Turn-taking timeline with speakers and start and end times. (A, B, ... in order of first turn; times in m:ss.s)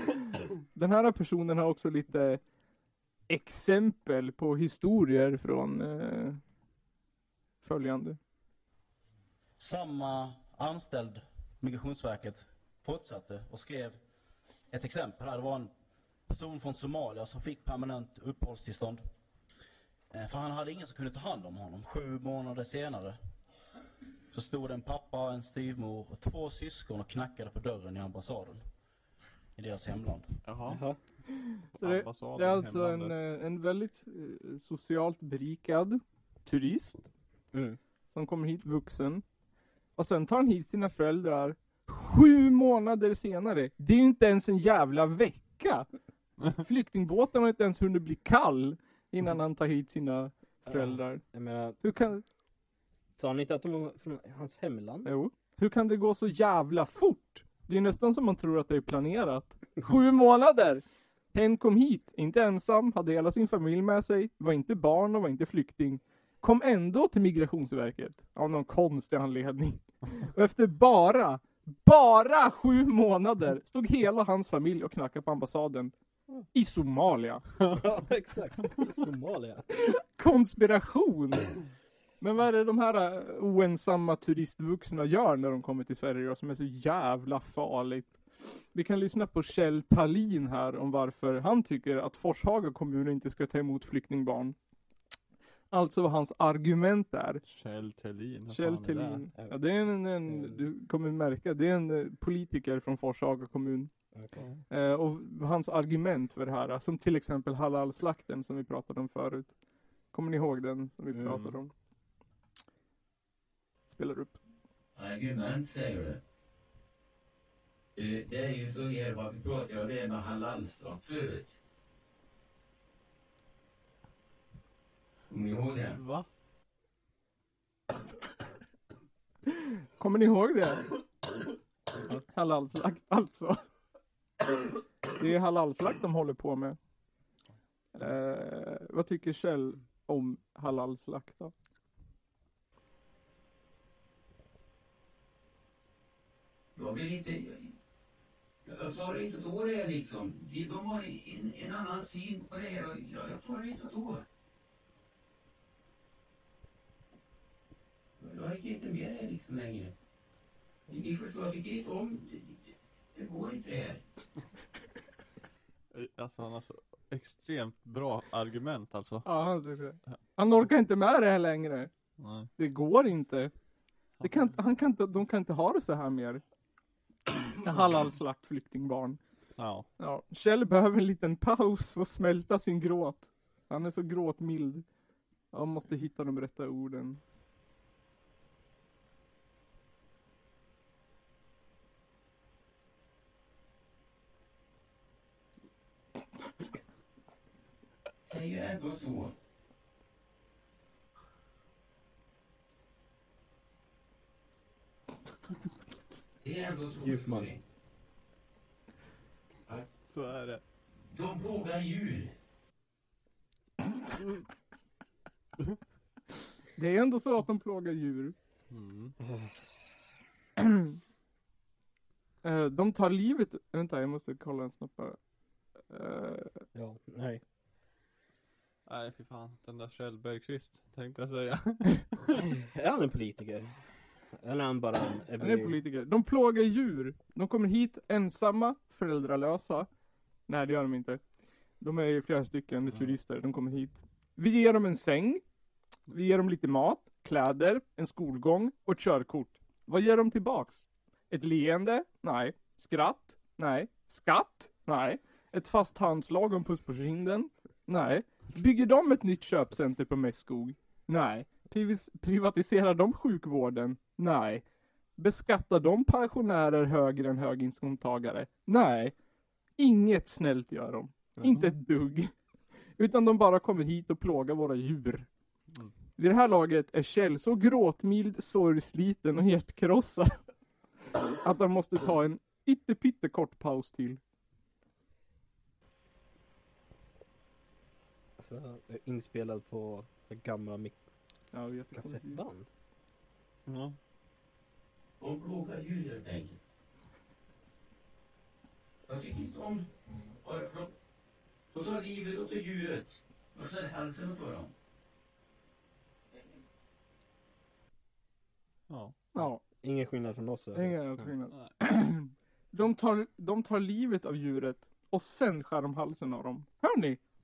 0:00.7-0:02.4 A
0:03.3-0:06.4 A
0:07.6-0:08.2 A
0:09.6-0:14.0 B
0:14.7-0:15.7 B
0:16.3-0:19.0 B
0:20.1-0:23.2 B
0:24.3-0:28.6 B
0:29.6-0:30.3 B
0:30.4-0:30.8 C
0:30.7-0:31.0 D
0:31.6-0:37.1 A
0:31.8-0:33.2 C
0:37.5-0:37.8 D
0:38.1-0:39.2 A
0:40.0-0:45.9 A
0:46.5-0:51.2 A
0:50.7-0:51.8 D
0:51.8-0:52.2 A
0:53.2-0:55.1 D
0:55.0-1:15.9 A
1:16.5-1:17.4 A
1:17.7-1:19.6 D
1:19.8-1:21.6 A
1:22.2-1:34.6 A
1:35.7-1:37.4 A
1:37.5-1:39.3 C
1:38.5-1:43.9 A
1:39.4-1:39.6 D
1:40.2-1:40.6 D
1:44.7-1:49.5 A
1:50.1-1:51.7 A
1:51.1-1:51.4 D
1:51.3-1:51.6 C
1:53.9-1:54.4 A
1:55.0-1:56.2 E
1:58.0-2:01.5 E
2:05.3-2:06.0 E
2:06.0-2:06.3 C
2:10.0-2:10.9 A
2:12.1-2:13.6 A
2:15.2-2:16.8 A
2:17.9-2:21.5 A
2:26.8-2:27.7 E
2:28.6-2:34.2 E
2:38.2-2:39.9 E
2:40.9-2:44.0 E
2:45.9-2:49.3 C
2:49.2-2:51.9 A
2:52.2-2:52.5 C
2:52.6-2:53.5 A
2:54.2-2:56.4 A
2:57.6-2:59.2 A
2:59.6-2:59.9 C
3:00.0-3:04.8 A
3:05.5-3:07.2 A
3:18.2-3:19.3 E
3:26.4-3:27.6 E
3:27.0-3:27.5 D
3:30.1-3:30.6 C
3:31.1-3:32.3 E
3:36.8-3:38.4 A
3:38.7-3:39.2 C
3:39.2-3:39.6 D
3:42.4-3:45.2 A
3:45.9-3:46.7 A
3:46.8-3:47.4 D
3:48.9-3:52.5 C
3:52.5-3:53.7 D
3:54.4-3:55.8 D
3:55.4-3:59.9 A
4:00.5-4:01.2 A
4:01.8-4:05.4 A
4:06.1-4:24.6 A
4:25.2-4:29.1 A
4:29.8-4:32.3 A
4:33.0-4:35.3 A
4:36.2-4:40.4 A
4:41.4-4:44.2 A
4:48.4-4:51.0 D
4:51.5-4:52.4 A
4:51.9-4:52.7 D
4:53.7-4:54.0 C
4:55.2-4:56.6 E
4:59.1-5:00.9 E
5:01.7-5:04.7 E
5:08.9-5:09.2 C
5:09.3-5:09.6 A
5:09.8-5:11.2 D
5:10.8-5:17.2 A